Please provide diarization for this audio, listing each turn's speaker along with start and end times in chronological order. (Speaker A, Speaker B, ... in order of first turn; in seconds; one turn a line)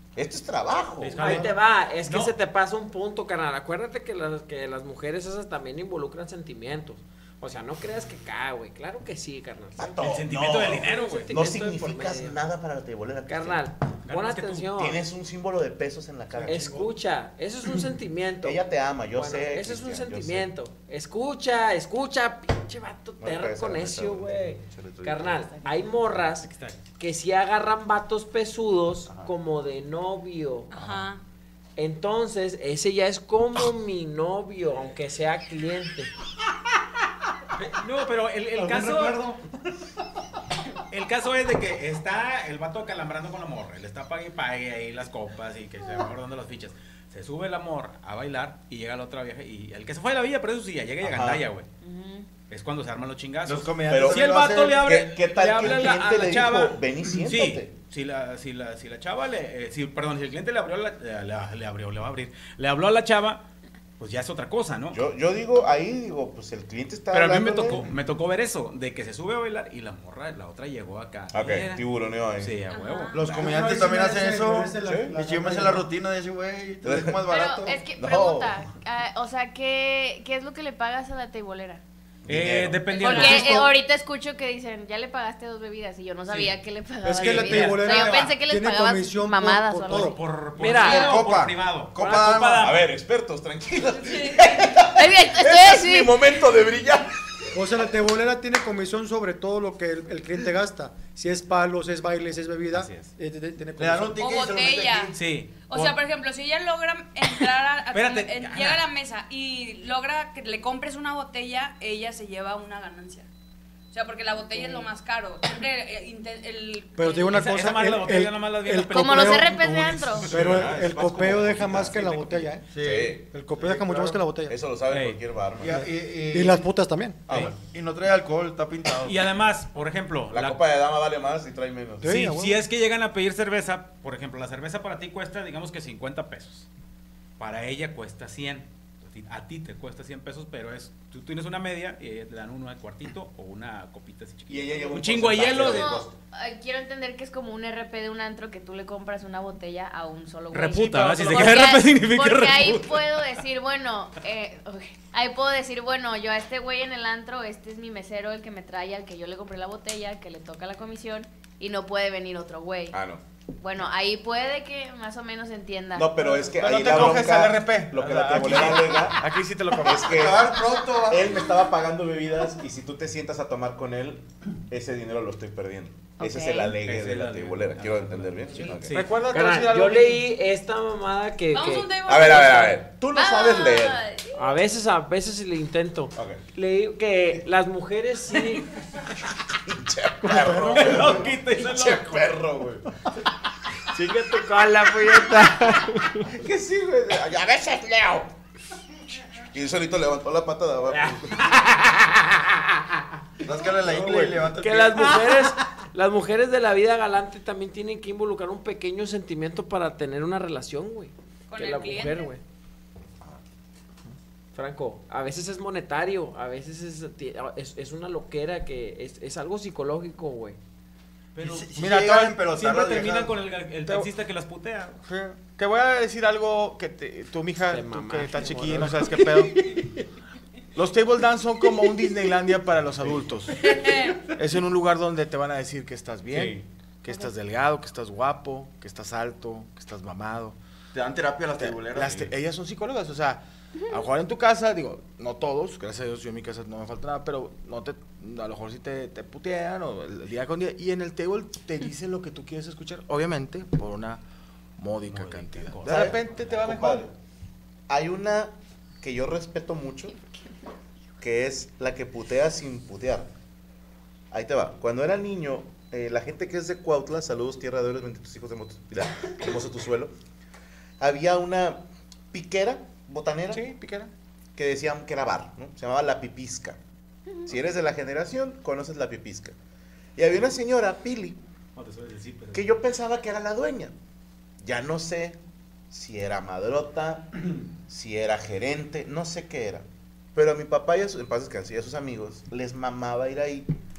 Speaker A: 0.2-1.3
Speaker B: 1.0-2.3
Speaker C: 1.2-1.5
Speaker D: 1.2-10.0
Speaker A: 9.8-13.6
Speaker B: 10.0-11.3
Speaker D: 10.8-12.4
Speaker D: 13.3-15.0
Speaker B: 14.1-14.7
Speaker A: 14.8-16.8
Speaker C: 16.4-16.8
Speaker D: 16.4-18.6
Speaker A: 18.4-20.5
Speaker D: 19.1-30.7
Speaker A: 23.2-25.5
Speaker B: 26.4-26.8
Speaker E: 30.7-31.2
Speaker D: 31.8-36.1
Speaker B: 37.6-39.4
Speaker C: 38.6-39.3
Speaker B: 40.9-51.7
Speaker A: 51.0-51.4
Speaker F: 51.8-52.3
Speaker B: 52.5-63.4
Speaker G: 53.5-54.8
Speaker A: 53.9-57.7
Speaker B: 64.0-65.0
Speaker A: 64.9-67.9
Speaker B: 67.1-71.8
Speaker A: 71.3-72.6
Speaker B: 72.4-73.5
Speaker E: 72.7-73.2
Speaker G: 73.1-77.7
Speaker C: 73.2-75.9
Speaker A: 74.8-75.2
Speaker A: 76.8-77.2
Speaker F: 77.3-81.8
Speaker C: 77.4-77.7
Speaker A: 77.9-78.7
Speaker A: 82.2-83.3
Speaker B: 82.3-83.7
Speaker F: 83.0-90.2
Speaker B: 86.3-86.6
Speaker C: 87.0-90.2
Speaker B: 87.1-88.3
Speaker B: 89.9-92.9
Speaker D: 90.5-91.3
Speaker G: 90.8-92.7
Speaker D: 92.0-92.7
Speaker A: 92.6-97.5
Speaker E: 94.0-94.7
Speaker F: 95.0-96.2
Speaker C: 97.5-104.2
Speaker B: 102.7-103.1
Speaker G: 103.8-105.2
Speaker E: 104.2-113.3
Speaker B: 105.2-106.0
Speaker B: 107.9-108.9
Speaker E: 113.9-117.4
Speaker F: 114.5-114.9
Speaker C: 117.0-119.6
Speaker B: 117.3-120.3
Speaker F: 118.9-120.3
Speaker A: 120.2-123.2
Speaker C: 120.2-124.6
Speaker G: 122.7-124.2
Speaker A: 124.5-125.8
Speaker B: 124.9-125.2
Speaker G: 125.6-126.7
Speaker C: 125.7-127.2
Speaker A: 127.3-127.5
Speaker G: 127.3-129.2
Speaker B: 129.0-130.6
Speaker A: 130.3-132.2
Speaker C: 132.0-132.6
Speaker B: 132.0-136.7
Speaker B: 137.4-146.0
Speaker A: 144.5-146.2
Speaker F: 145.4-163.0
Speaker B: 150.5-153.4
Speaker A: 162.9-163.2
Speaker F: 163.6-166.4
Speaker A: 165.9-179.0
Speaker H: 166.5-170.6
Speaker B: 168.3-169.0
Speaker G: 170.1-171.4
Speaker F: 176.2-176.8
Speaker B: 176.8-179.1
Speaker H: 178.9-180.2
Speaker D: 179.3-182.4
Speaker E: 181.5-184.6
Speaker A: 182.1-184.0
Speaker F: 183.2-183.9
Speaker D: 184.3-188.7
Speaker A: 186.2-186.4
Speaker A: 189.7-192.9
Speaker C: 190.3-191.1
Speaker B: 190.3-192.2
Speaker D: 193.9-196.3
Speaker A: 196.3-198.3
Speaker A: 199.5-201.4
Speaker D: 200.9-202.9
Speaker G: 203.4-205.2
Speaker D: 204.5-212.4
Speaker E: 211.5-212.3
Speaker D: 214.5-220.6
Speaker B: 221.3-225.0
Speaker G: 221.4-223.4
Speaker H: 221.8-222.4
Speaker H: 225.1-229.8
Speaker D: 227.7-229.5
Speaker H: 230.8-233.8
Speaker E: 233.6-234.3
Speaker H: 234.4-240.6
Speaker B: 236.3-236.6
Speaker G: 240.9-242.3
Speaker H: 241.6-254.2
Speaker H: 254.8-257.1
Speaker B: 255.1-256.7
Speaker A: 255.8-257.1
Speaker A: 257.9-260.2
Speaker A: 261.2-263.3
Speaker A: 264.3-270.1
Speaker A: 271.0-273.6
Speaker H: 273.5-274.1
Speaker A: 274.6-276.8
Speaker A: 277.5-279.6
Speaker A: 280.2-281.4
Speaker B: 281.8-282.8
Speaker A: 282.5-283.9
Speaker A: 284.6-285.4
Speaker A: 285.9-293.7